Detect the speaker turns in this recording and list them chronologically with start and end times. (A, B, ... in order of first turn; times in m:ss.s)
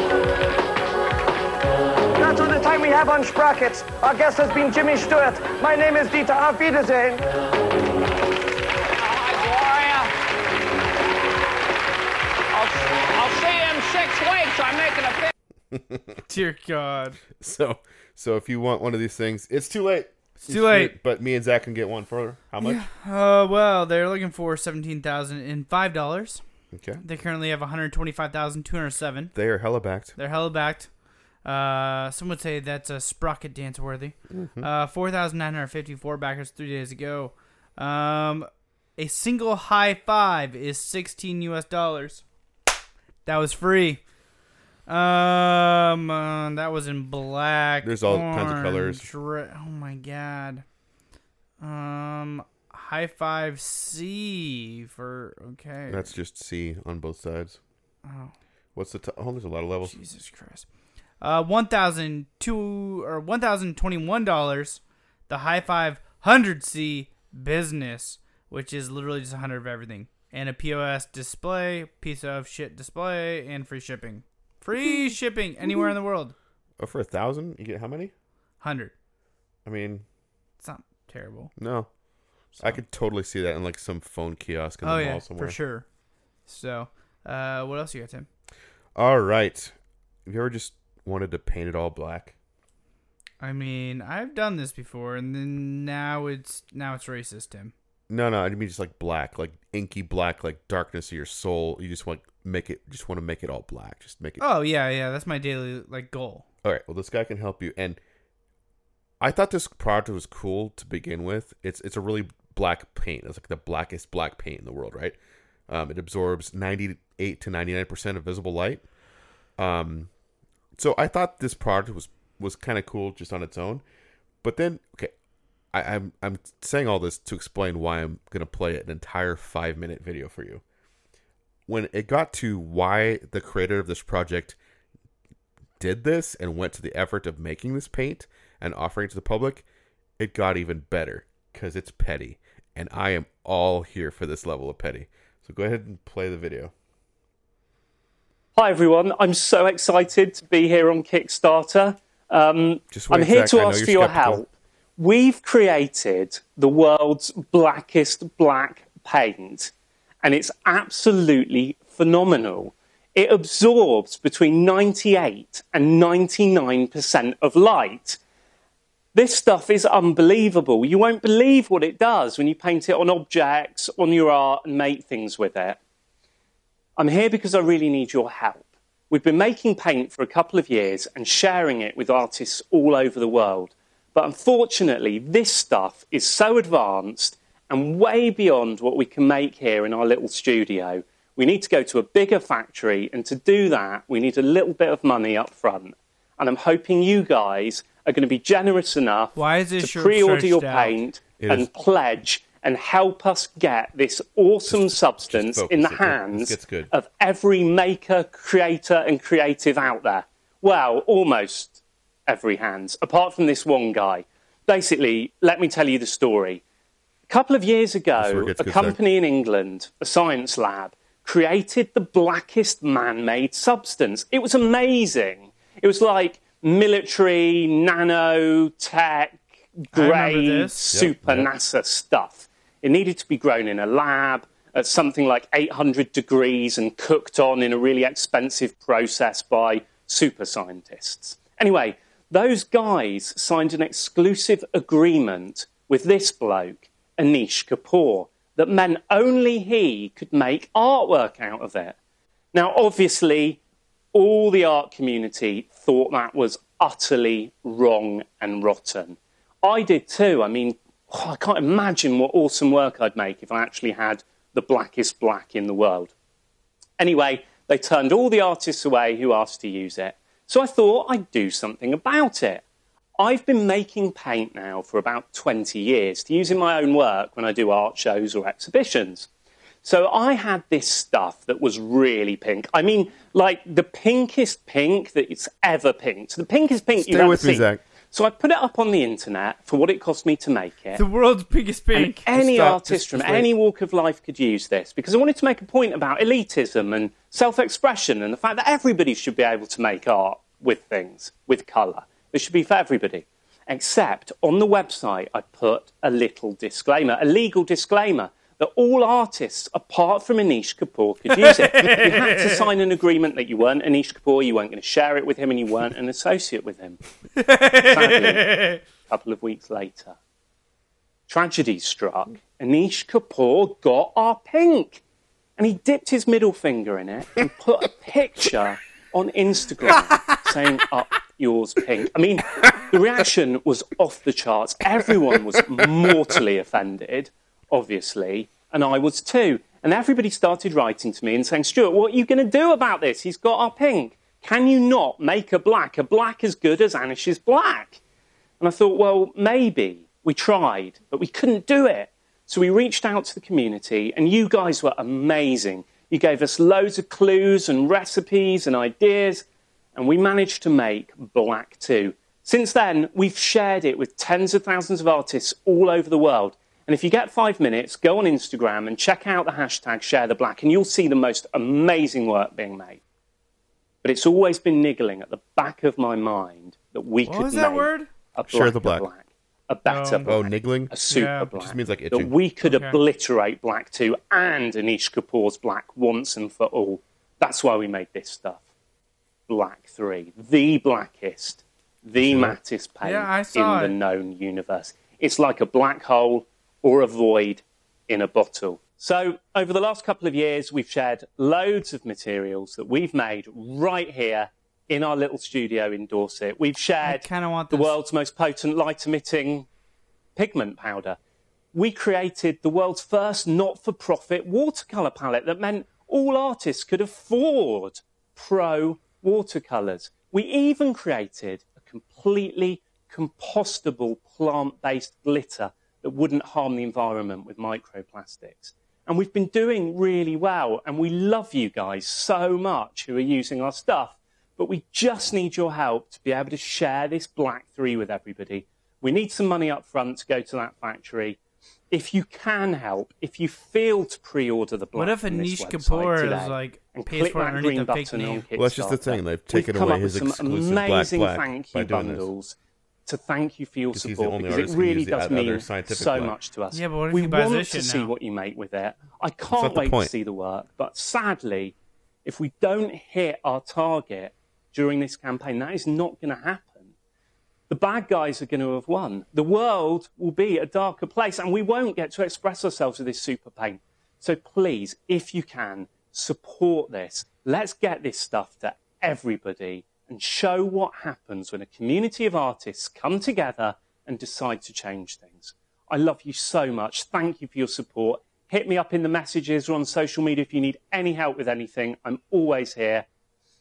0:02.2-0:07.2 A
0:09.1-0:10.1 B
0:12.5-0:15.3 B
0:15.7-0:16.2 C
0:16.3-0:17.2 D
0:17.4-0:22.9 C
0:20.4-0:21.0 D
0:22.6-0:26.4 D
0:26.7-0:27.0 C
0:27.0-0:29.3 D
0:29.3-0:30.2 C
0:30.2-0:30.9 D
0:31.4-0:42.2 D
0:34.3-0:34.7 C
0:43.3-0:44.0 D
0:44.9-0:50.6 D
0:47.8-0:49.1 C
0:51.6-0:56.1 D
0:55.9-0:57.6 C
0:58.0-0:58.3 D
0:58.8-1:00.0 C
0:59.8-1:00.7 D
1:01.2-1:16.4 D
1:16.8-1:18.1 C
1:18.6-1:18.9 D
1:19.6-1:20.0 C
1:20.6-1:21.5 D
1:21.6-1:21.9 C
1:22.6-1:22.8 D
1:22.6-1:25.6 C
1:24.8-1:25.8 D
1:26.5-1:28.3 D
1:29.0-1:29.7 C
1:30.3-1:32.4 C
1:33.4-1:37.7 D
1:38.1-1:44.4 C
1:44.4-1:46.4 D
1:46.6-1:48.0 C
1:49.2-1:55.2 C
1:55.7-1:58.8 C
1:59.6-2:00.1 C
2:00.8-2:03.8 C
2:04.4-2:05.1 C
2:05.7-2:10.6 C
2:11.7-2:14.6 C
2:15.8-2:19.6 C
2:20.2-2:26.7 C
2:28.6-2:39.7 E
2:32.9-2:34.4 C
2:40.2-2:48.2 E
2:49.1-2:55.8 E
2:57.0-3:36.6 E
3:19.4-3:21.0 D
3:21.4-3:21.7 C
3:24.7-3:26.9 C
3:37.3-4:12.0 E
3:38.2-3:39.0 C
3:49.9-3:50.9 D
3:50.9-3:51.5 C
4:12.5-4:13.6 E
4:14.1-4:26.1 E
4:27.0-4:32.6 E
4:33.2-4:39.3 E
4:39.8-4:51.0 E
4:47.0-4:47.8 C
4:51.0-4:52.3 D
4:51.9-5:17.0 E
4:52.3-4:53.5 C
5:11.4-5:12.7 D
5:17.4-5:18.8 D
5:17.8-5:20.2 E
5:21.3-5:25.0 E
5:25.6-5:48.0 E
5:48.6-6:13.0 E
6:14.0-6:28.6 E
6:17.2-6:18.1 D
6:18.5-6:19.1 C
6:19.8-6:20.4 D
6:20.3-6:21.0 C
6:21.1-6:21.5 D
6:21.5-6:22.4 C
6:22.6-6:23.0 D
6:29.5-6:49.7 E
6:32.2-6:32.6 C
6:33.0-6:34.0 D
6:47.0-6:48.0 D
6:50.4-6:51.2 E
6:51.7-7:21.4 E
7:21.9-7:32.6 E
7:25.0-7:28.4 D
7:28.6-7:32.3 C
7:33.1-7:46.9 E
7:33.9-7:36.4 C
7:36.7-7:38.1 D
7:39.5-7:40.1 C
7:47.7-8:13.1 E